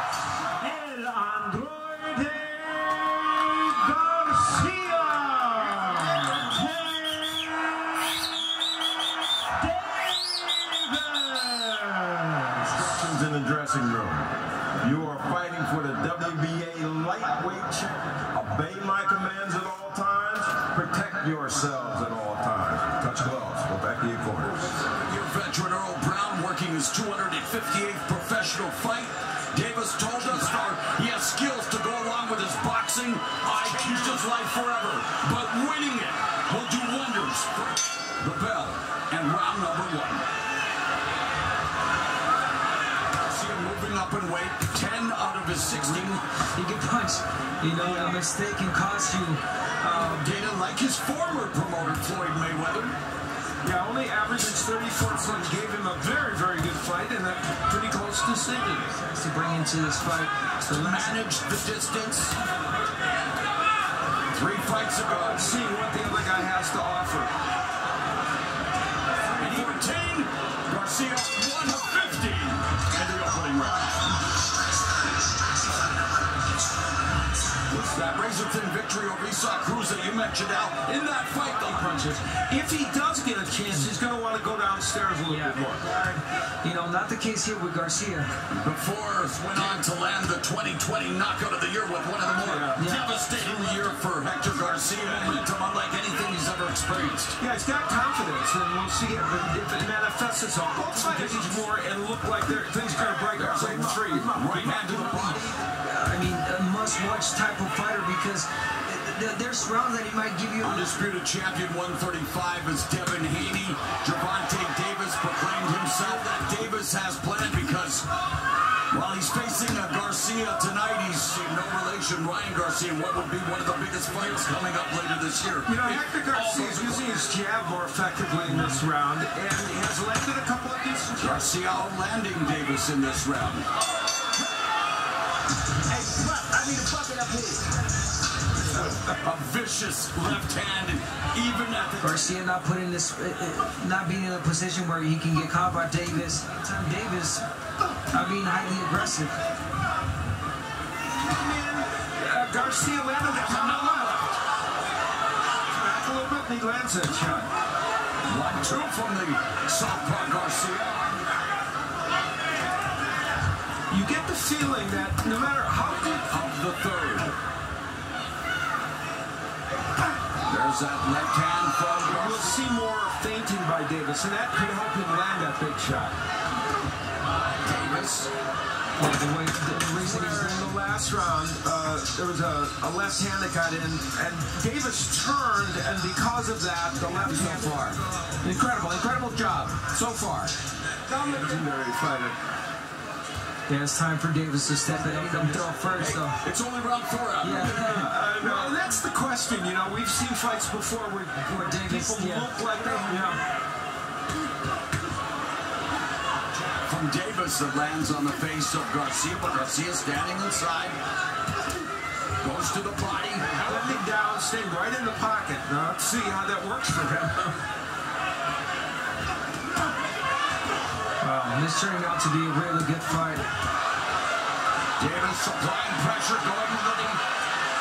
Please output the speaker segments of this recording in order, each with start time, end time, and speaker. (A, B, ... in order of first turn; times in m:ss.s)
0:00.6-0:12.8 A
0:12.8-0:24.7 B
0:24.9-0:40.2 C
0:33.7-0:34.1 D
0:43.2-0:46.2 C
0:46.6-0:50.4 E
0:47.8-0:48.2 D
0:49.8-0:52.9 C
0:53.6-0:58.9 D
0:59.0-1:01.2 E
1:00.6-1:02.4 C
1:04.3-1:05.5 C
1:05.0-1:07.3 D
1:09.3-1:14.1 C
1:09.4-1:09.8 D
1:17.7-1:22.2 C
1:21.1-1:26.2 D
1:25.2-1:25.6 E
1:26.6-1:28.3 E
1:28.5-1:37.4 C
1:32.4-1:32.8 D
1:32.8-1:33.1 E
1:37.4-1:44.4 D
1:41.1-1:41.6 C
1:44.3-1:45.5 C
1:45.7-1:50.9 E
1:50.6-1:58.0 C
1:58.9-2:07.0 C
2:05.6-2:11.6 D
2:11.2-2:13.6 C
2:16.0-2:17.6 D
2:19.1-2:22.2 C
2:22.0-2:27.4 E
2:28.1-2:29.3 E
2:31.2-2:34.2 D
2:33.4-2:34.3 C
2:35.7-2:37.5 D
2:38.2-2:41.2 C
2:43.9-2:46.3 D
2:46.3-2:47.4 C
2:50.4-2:52.6 C
2:52.0-2:56.1 D
2:57.6-2:58.3 C
2:59.0-3:00.8 E
2:59.8-3:08.0 D
3:08.4-3:10.5 F
3:11.1-3:12.4 D
3:13.7-3:16.4 E
3:16.0-3:17.9 C
3:17.4-3:18.2 E
3:17.6-3:23.4 D
3:21.5-3:22.5 E
3:26.8-3:31.0 C
3:32.4-3:33.6 C
3:33.6-3:37.6 D
3:41.2-3:43.4 E
3:45.0-3:47.2 C